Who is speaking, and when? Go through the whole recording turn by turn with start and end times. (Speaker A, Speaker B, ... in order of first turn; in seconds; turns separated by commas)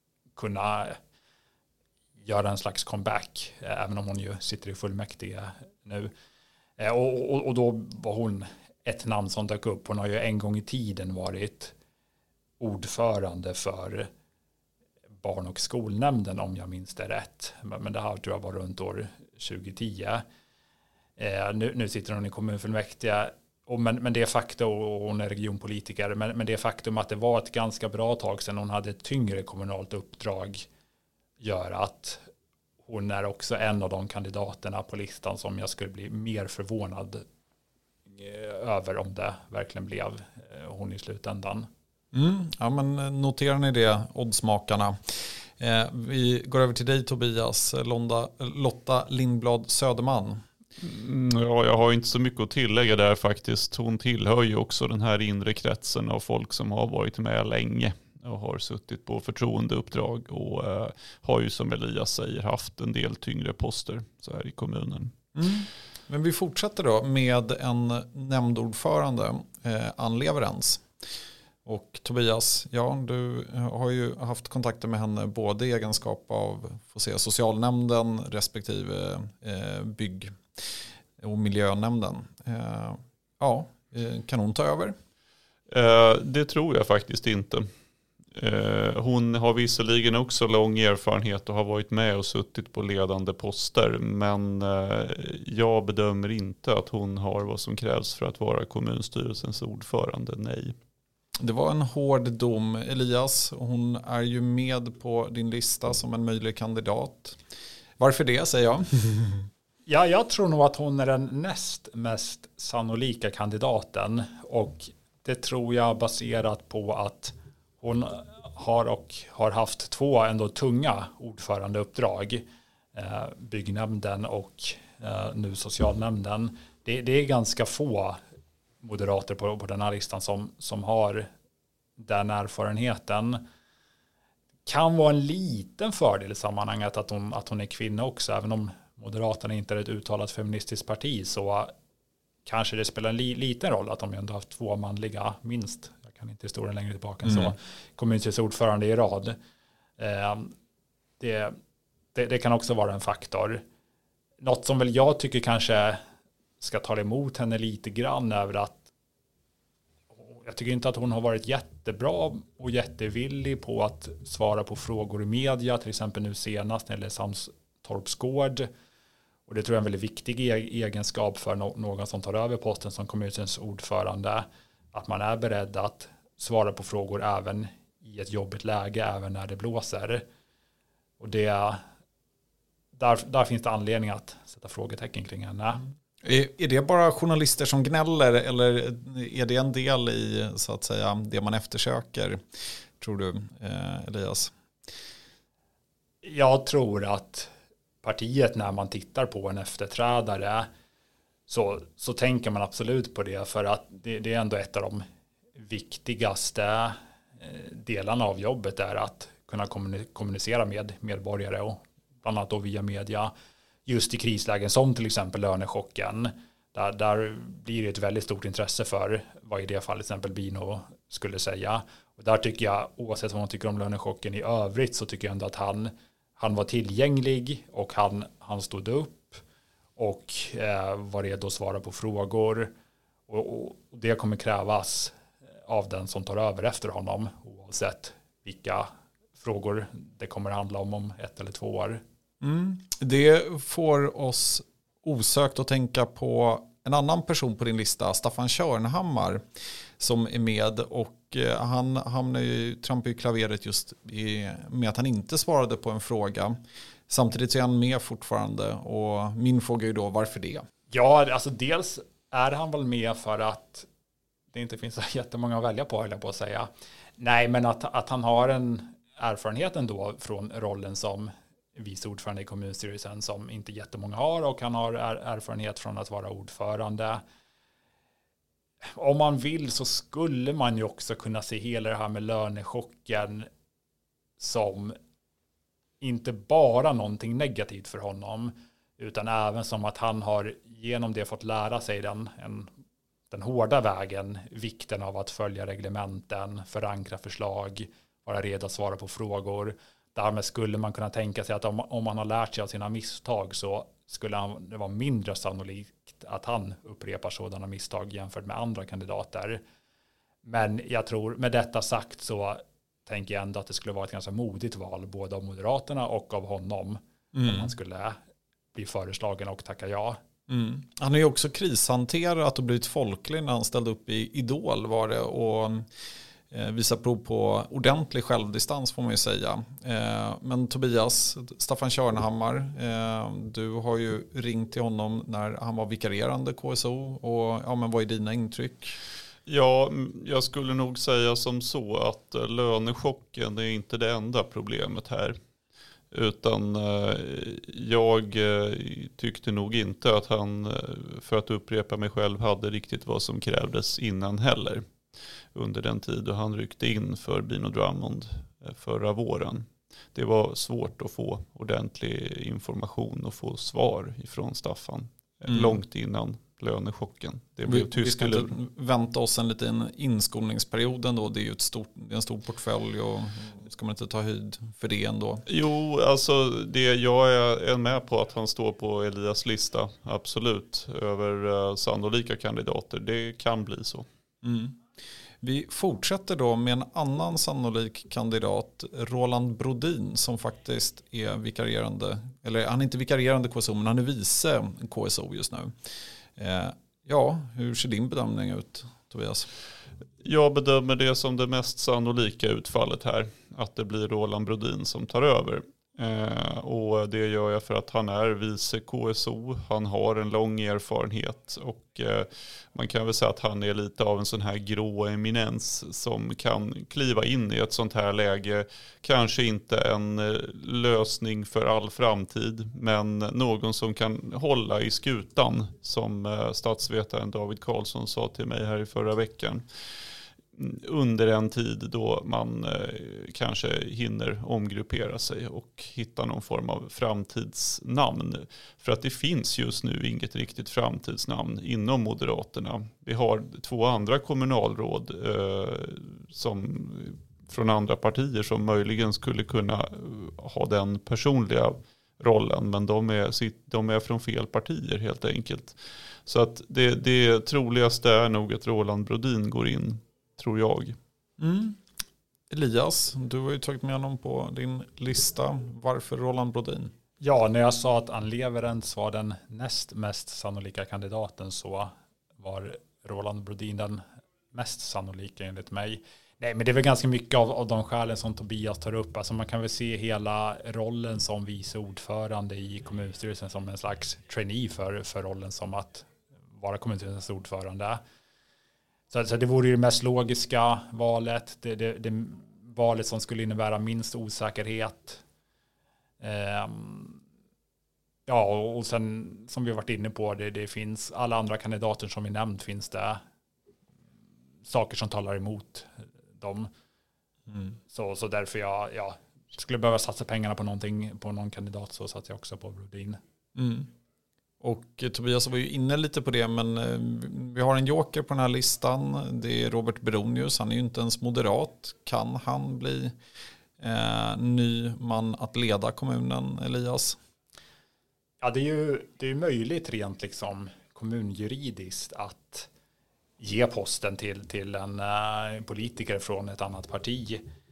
Speaker A: 0.3-1.0, Speaker A: 2.2-6.1, Speaker A: 6.8-11.7, Speaker A: 12.6-14.1, Speaker A: 15.2-20.2, Speaker A: 21.2-30.7, Speaker A: 31.4-32.2, Speaker A: 32.9-37.2, Speaker A: 38.1-41.7, Speaker B: 42.1-50.4, Speaker C: 50.8-65.1, Speaker B: 65.3-70.8, Speaker B: 71.6-80.4, Speaker B: 81.2-84.9, Speaker C: 85.7-87.7, Speaker C: 88.3-100.7, Speaker B: 101.4-107.4, Speaker B: 108.0-109.5, Speaker A: 109.9-122.4, Speaker A: 122.9-128.2, Speaker A: 128.8-131.3, Speaker A: 132.0-133.4, Speaker A: 134.7-141.7, Speaker A: 142.4-149.4, Speaker B: 147.2-147.5, Speaker A: 150.0-150.5, Speaker A: 151.2-151.6, Speaker A: 152.1-153.6, Speaker A: 154.4-156.0, Speaker A: 156.6-158.8, Speaker A: 160.2-168.7, Speaker A: 169.5-180.2, Speaker A: 181.2-181.8, Speaker A: 182.9-185.8, Speaker B: 186.2-192.4, Speaker B: 193.0-194.5, Speaker A: 196.2-197.5, Speaker A: 198.0-200.7, Speaker A: 201.5-205.0, Speaker A: 205.6-213.3, Speaker A: 213.8-229.4, Speaker A: 230.0-232.7, Speaker A: 233.3-242.0, Speaker B: 242.4-260.6, Speaker A: 260.9-263.9, Speaker A: 264.5-277.2, Speaker A: 278.9-283.5, Speaker A: 284.4-285.0, Speaker A: 286.0-292.7, Speaker A: 293.3-309.6, Speaker A: 310.4-318.2, Speaker B: 317.3-317.7, Speaker A: 318.7-320.2, Speaker B: 320.5-325.9, Speaker B: 326.5-339.0, Speaker C: 339.5-345.4, Speaker C: 346.1-354.8, Speaker C: 355.5-368.5, Speaker B: 365.5-365.8, Speaker B: 367.6-375.4, Speaker C: 375.5-384.1, Speaker B: 384.4-384.8, Speaker B: 385.4-395.7, Speaker B: 396.4-399.5, Speaker C: 400.2-429.6, Speaker C: 430.6-461.0, Speaker B: 461.4-461.8, Speaker B: 462.5-466.9, Speaker A: 467.2-488.0, Speaker A: 489.1-495.2, Speaker A: 496.2-497.2, Speaker A: 498.3-503.2, Speaker A: 504.6-506.7, Speaker B: 507.5-507.8, Speaker A: 507.9-513.2, Speaker B: 513.5-513.9, Speaker B: 514.6-523.1, Speaker B: 523.8-527.2, Speaker A: 528.4-532.7, Speaker A: 533.4-537.4